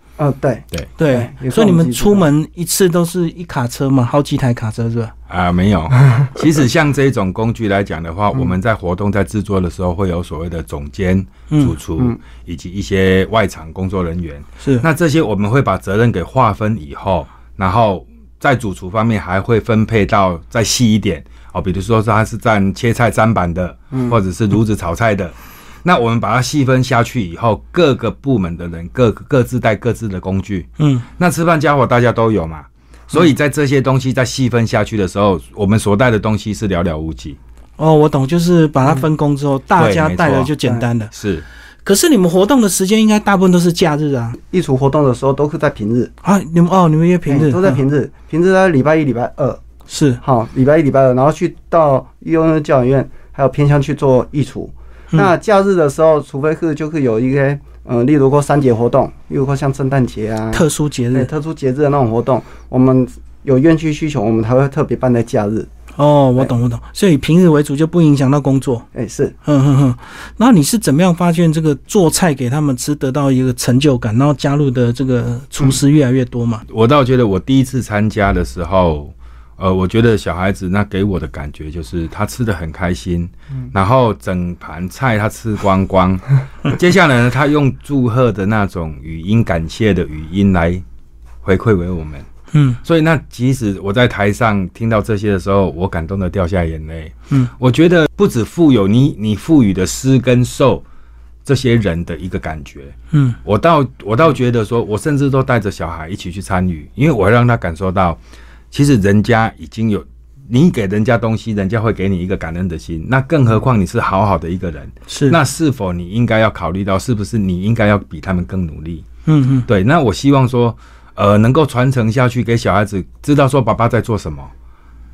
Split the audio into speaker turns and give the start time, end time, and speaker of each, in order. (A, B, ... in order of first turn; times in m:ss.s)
0:00.2-0:02.3 A
0:01.0-0:05.1 B
0:05.3-0:37.4 C
0:11.5-0:11.8 B
0:23.9-0:24.2 A
0:30.8-0:31.1 B
0:37.8-0:41.1 B
0:39.8-0:40.6 C
0:41.1-0:41.4 C
0:41.8-0:44.4 B
0:44.4-0:46.1 A
0:46.2-0:47.8 B
0:47.3-0:49.6 A
0:49.9-0:50.2 B
0:50.2-1:05.7 A
1:00.5-1:01.3 B
1:06.0-1:08.9 B
1:08.9-1:09.4 A
1:09.4-1:16.6 B
1:16.7-1:30.8 C
1:31.4-1:32.2 C
1:32.5-1:32.8 B
1:32.8-1:40.8 C
1:41.4-1:48.2 C
1:43.1-1:43.4 B
1:48.7-1:59.1 C
1:55.1-1:55.4 B
1:59.2-1:59.7 B
1:59.7-2:04.5 C